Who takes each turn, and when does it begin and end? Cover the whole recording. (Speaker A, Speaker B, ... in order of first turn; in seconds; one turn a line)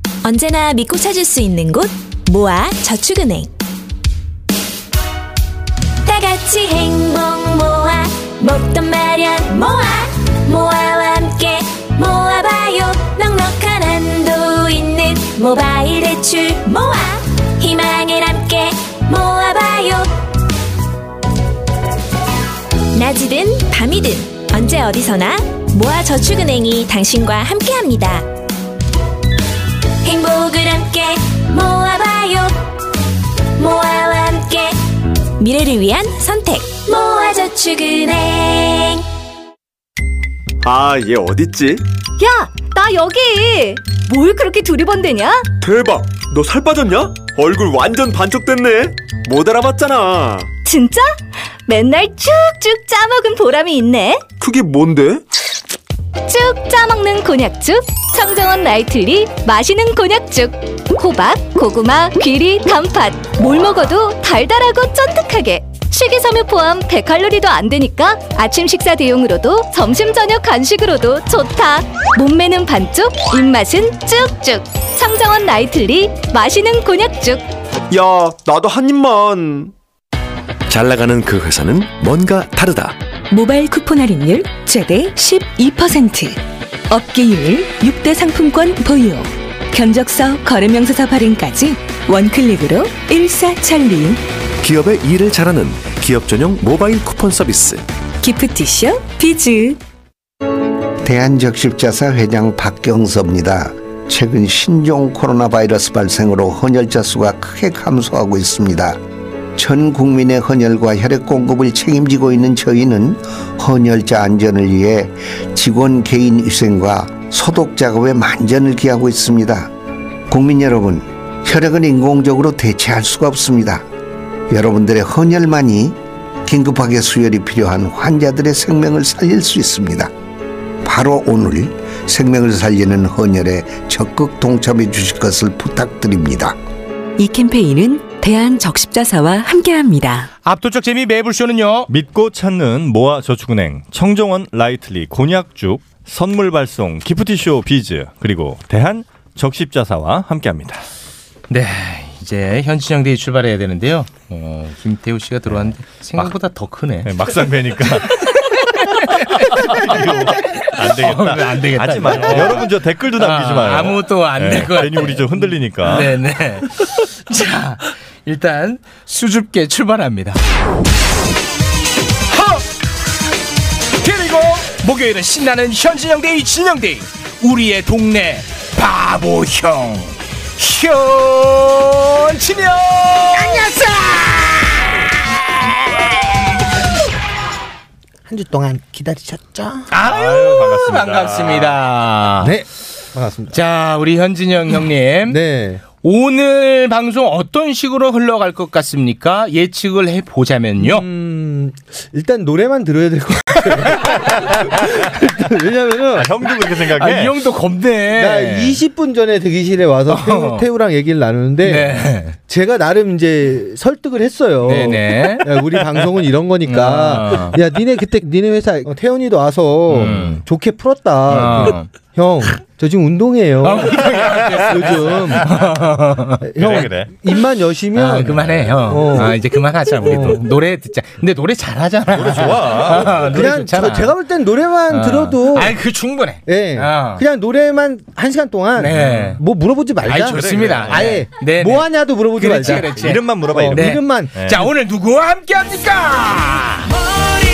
Speaker A: 0.2-3.5
Speaker A: 6.0-20.1
Speaker A: 22.9-28.3
Speaker A: 30.0-32.7
Speaker A: 33.6-34.8
Speaker A: 35.4-39.0
Speaker B: 40.6-41.8
Speaker C: 42.2-45.5
Speaker B: 45.6-50.5
Speaker C: 50.6-54.2
Speaker B: 54.4-55.2
Speaker C: 56.3-77.5
Speaker B: 77.9-79.7
Speaker D: 80.7-83.0
Speaker E: 83.3-94.2
Speaker D: 94.6-97.8
Speaker E: 98.2-99.8
Speaker F: 101.0-109.0
Speaker F: 109.6-119.7
Speaker F: 120.3-123.8
Speaker F: 124.5-130.1
Speaker F: 130.8-136.6
Speaker E: 137.2-140.3
Speaker G: 140.4-141.9
Speaker H: 141.9-150.8
Speaker G: 151.5-157.3
Speaker H: 157.0-166.1
Speaker G: 158.1-170.4
Speaker G: 172.3-172.7
Speaker G: 174.0-184.6
Speaker I: 183.4-184.6
Speaker I: 188.3-189.9
Speaker G: 189.9-192.6
Speaker H: 190.0-191.8
Speaker I: 192.4-193.6
Speaker G: 193.5-195.4
Speaker I: 195.3-195.8
Speaker G: 196.0-201.1
Speaker I: 200.8-206.5
Speaker H: 206.1-207.4
Speaker G: 206.9-208.8
Speaker I: 208.1-225.5
Speaker G: 210.1-210.7
Speaker G: 211.6-212.4
Speaker G: 214.7-215.6
Speaker G: 216.7-217.6
Speaker G: 219.9-220.4
Speaker H: 220.0-220.3
Speaker G: 221.3-221.9
Speaker G: 223.6-226.9
Speaker I: 226.5-229.4
Speaker H: 226.6-227.1
Speaker G: 227.9-234.2
Speaker I: 230.0-230.4
Speaker H: 232.1-233.3
Speaker I: 233.3-235.8
Speaker G: 234.9-237.2
Speaker I: 236.5-244.3
Speaker G: 238.8-239.4
Speaker G: 240.0-246.9
Speaker H: 240.3-241.2
Speaker H: 242.8-244.7